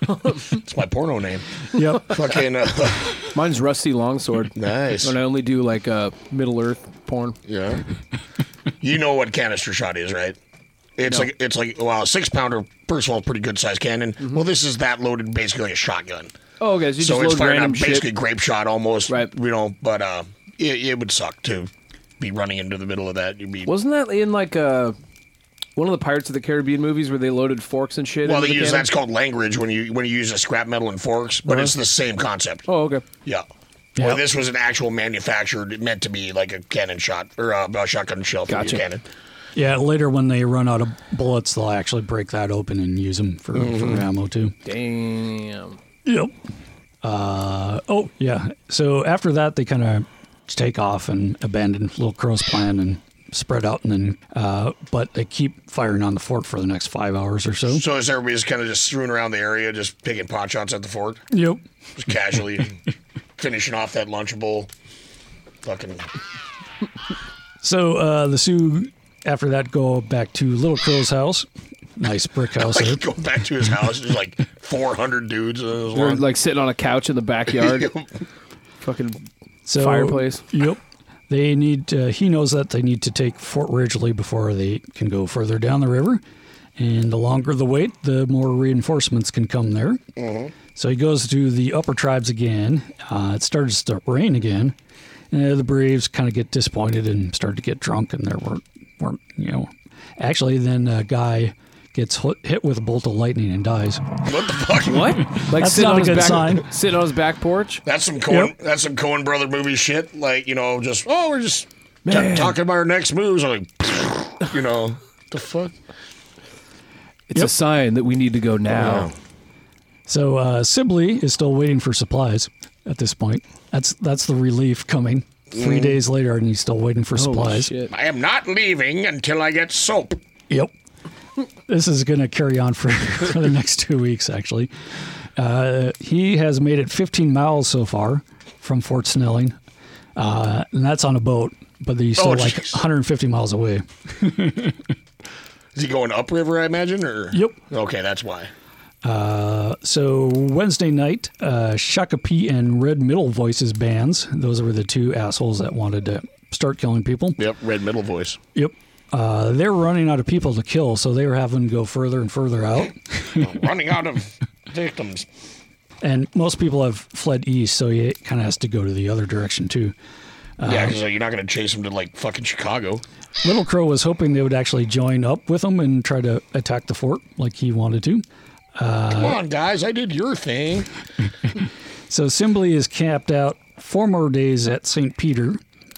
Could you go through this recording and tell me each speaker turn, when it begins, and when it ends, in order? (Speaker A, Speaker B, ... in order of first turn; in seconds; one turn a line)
Speaker A: 0.5-1.4
Speaker B: 1.7-2.2
Speaker A: 2.0-3.2
Speaker C: 3.3-7.4
Speaker A: 4.5-5.2
Speaker A: 7.5-7.8
Speaker A: 8.8-10.4
Speaker A: 11.0-16.4
Speaker C: 16.6-18.1
Speaker A: 17.0-23.7
Speaker C: 23.7-25.0
Speaker C: 25.8-28.9
Speaker A: 28.2-32.7
Speaker C: 31.5-31.7
Speaker C: 32.7-33.0
Speaker B: 34.0-34.2
Speaker A: 34.0-39.0
Speaker C: 38.5-38.8
Speaker B: 39.5-44.5
Speaker A: 43.5-44.1
Speaker C: 44.6-45.8
Speaker B: 46.0-46.3
Speaker B: 47.0-57.8
Speaker A: 57.7-61.2
Speaker B: 61.3-61.6
Speaker A: 62.0-62.8
Speaker A: 63.4-64.7
Speaker A: 65.6-66.1
Speaker B: 67.6-73.0
Speaker A: 72.6-76.2
Speaker C: 75.9-78.0
Speaker A: 77.5-78.0
Speaker C: 78.8-79.2
Speaker B: 79.7-86.2
Speaker C: 79.8-80.4
Speaker B: 86.8-90.0
Speaker A: 90.2-90.5
Speaker B: 90.8-94.8
Speaker B: 95.3-104.1
Speaker A: 104.2-105.2
Speaker C: 104.8-107.8
Speaker B: 105.4-106.7
Speaker A: 107.8-115.8
Speaker C: 112.1-112.6
Speaker C: 117.3-119.1
Speaker A: 118.7-119.1
Speaker B: 120.1-127.7
Speaker A: 125.5-126.0
Speaker C: 127.2-127.9
Speaker A: 127.9-130.2
Speaker B: 131.7-134.7
Speaker B: 135.4-139.6
Speaker B: 140.2-144.8
Speaker A: 142.2-142.8
Speaker A: 145.8-148.5
Speaker B: 147.3-147.6
Speaker B: 149.0-157.4
Speaker A: 157.4-158.4
Speaker B: 158.6-163.4
Speaker A: 163.4-165.3
Speaker B: 166.0-169.9
Speaker B: 170.6-171.0
Speaker A: 170.6-173.0
Speaker B: 173.4-178.2
Speaker B: 178.8-179.4
Speaker A: 179.1-180.9
Speaker B: 182.1-185.6